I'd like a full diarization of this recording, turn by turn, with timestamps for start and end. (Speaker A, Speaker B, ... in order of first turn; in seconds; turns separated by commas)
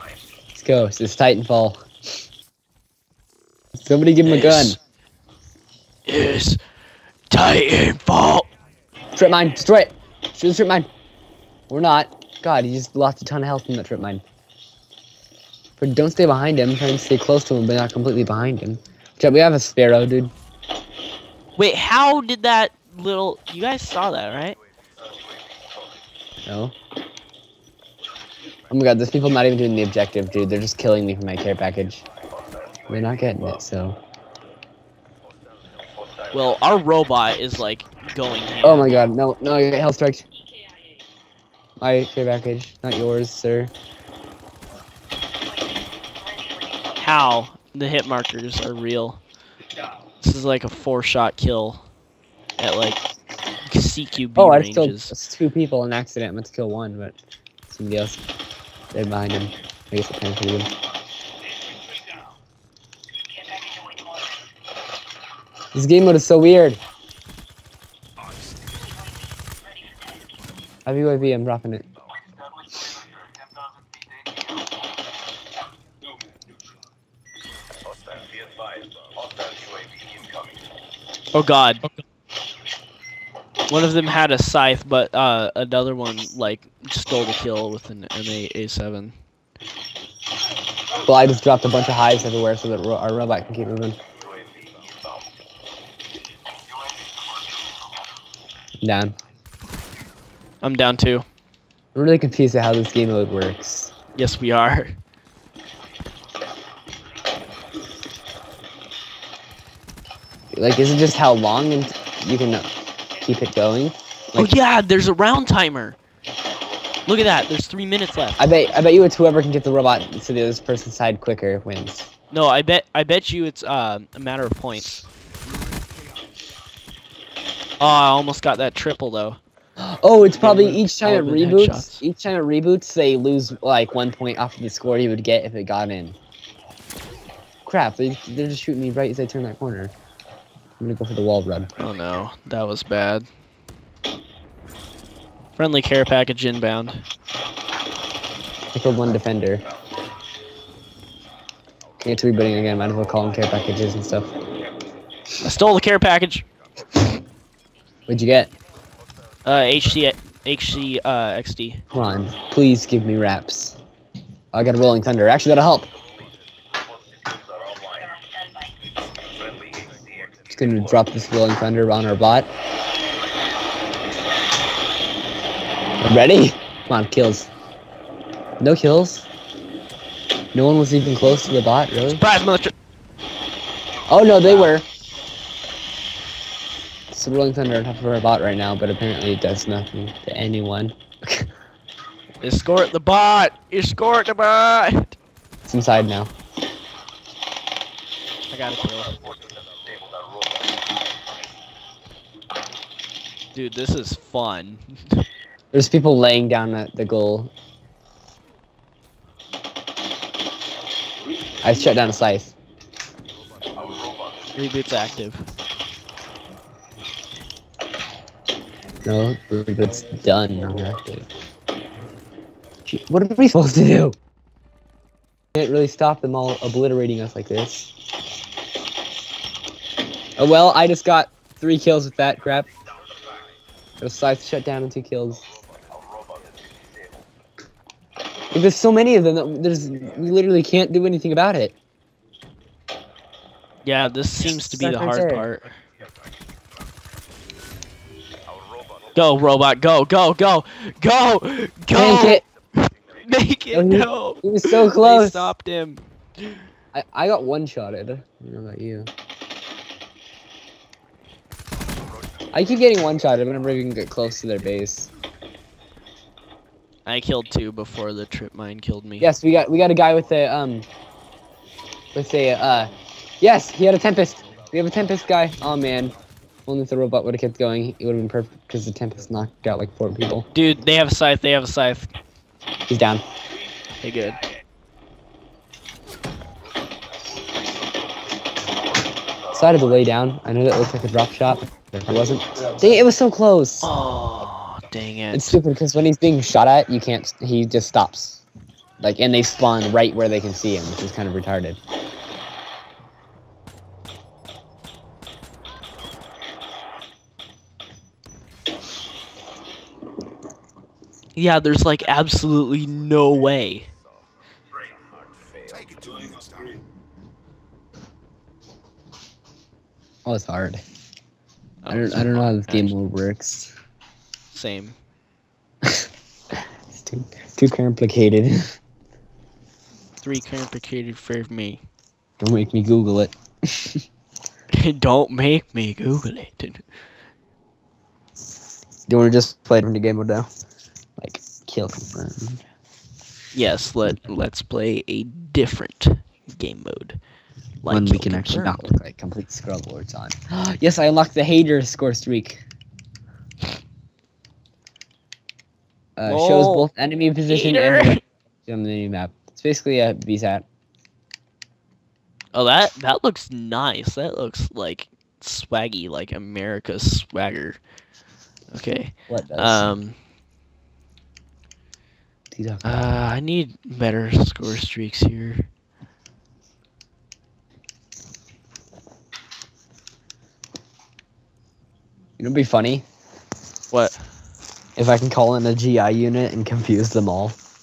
Speaker A: 0.5-1.8, Speaker A: 3.7-4.8, Speaker B: 4.2-4.8, Speaker B: 6.0-6.6, Speaker B: 7.3-8.5, Speaker A: 9.2-10.9, Speaker A: 11.7-14.2, Speaker A: 15.8-20.3, Speaker B: 21.6-24.6, Speaker A: 26.4-26.7, Speaker A: 28.7-32.0, Speaker A: 32.9-34.0, Speaker B: 36.3-39.1, Speaker A: 38.6-40.3, Speaker A: 41.8-43.7, Speaker B: 47.0-49.2, Speaker B: 50.2-51.9, Speaker B: 52.6-53.0, Speaker B: 53.6-55.1, Speaker A: 54.4-57.2, Speaker A: 57.7-58.2, Speaker A: 58.9-60.7, Speaker A: 65.7-66.8, Speaker C: 68.2-69.0, Speaker A: 70.8-71.9, Speaker B: 81.3-81.9, Speaker B: 83.7-89.1, Speaker A: 91.0-94.0, Speaker A: 98.8-99.1, Speaker B: 100.6-101.2, Speaker A: 101.9-103.9, Speaker B: 104.2-105.0, Speaker A: 110.5-112.7, Speaker A: 113.2-114.5, Speaker B: 114.3-116.0, Speaker B: 117.1-118.5, Speaker A: 118.4-122.1, Speaker B: 122.3-125.0, Speaker C: 125.4-126.4, Speaker B: 127.8-129.4, Speaker A: 129.8-136.2, Speaker B: 130.4-132.0, Speaker A: 137.7-139.9, Speaker A: 140.8-141.7, Speaker B: 141.8-143.3, Speaker B: 145.6-147.0, Speaker A: 148.7-149.6, Speaker A: 152.0-154.3, Speaker B: 155.4-156.4, Speaker A: 158.1-158.5, Speaker B: 159.4-161.8, Speaker A: 161.9-163.8, Speaker A: 164.5-165.9, Speaker A: 170.5-172.5, Speaker A: 176.0-177.5, Speaker A: 178.6-179.3, Speaker A: 180.5-182.2, Speaker B: 182.1-182.7, Speaker A: 184.1-184.8, Speaker B: 184.4-184.7, Speaker A: 187.1-191.5, Speaker B: 192.4-195.2, Speaker A: 195.7-196.3, Speaker B: 198.5-199.2, Speaker B: 203.5-205.2, Speaker A: 205.7-207.5, Speaker A: 211.6-212.5, Speaker B: 214.5-215.4, Speaker A: 219.0-221.3, Speaker A: 222.8-224.2, Speaker A: 225.5-227.9, Speaker A: 230.4-232.7, Speaker A: 234.0-235.4, Speaker A: 238.5-241.7, Speaker B: 243.8-245.8, Speaker A: 244.5-245.4, Speaker B: 249.1-256.6, Speaker A: 251.9-252.4, Speaker A: 253.7-255.5, Speaker A: 256.9-259.1, Speaker A: 262.5-265.1, Speaker B: 267.1-269.3, Speaker A: 269.2-270.9, Speaker A: 272.1-276.1, Speaker A: 276.6-280.5, Speaker B: 280.5-282.1, Speaker A: 282.9-283.2, Speaker B: 284.0-284.4, Speaker A: 289.5-293.9, Speaker B: 293.8-295.6, Speaker A: 295.3-298.4, Speaker A: 299.0-301.8, Speaker B: 311.4-313.9, Speaker C: 315.6-316.8, Speaker A: 320.2-320.8, Speaker B: 321.8-322.9, Speaker A: 321.9-323.7, Speaker B: 324.5-325.0, Speaker A: 325.8-328.7, Speaker B: 330.2-331.8, Speaker A: 332.4-334.0, Speaker B: 334.7-336.8, Speaker A: 339.1-340.5, Speaker A: 341.2-342.6, Speaker B: 343.5-347.2, Speaker B: 347.8-348.9, Speaker A: 347.9-352.6, Speaker A: 356.2-360.6, Speaker B: 356.2-356.9, Speaker B: 357.5-358.2, Speaker B: 362.5-367.8, Speaker B: 368.7-370.1, Speaker A: 369.3-369.9, Speaker A: 372.5-373.1, Speaker B: 372.8-375.7, Speaker A: 382.4-383.0, Speaker B: 383.9-384.2, Speaker A: 384.9-387.6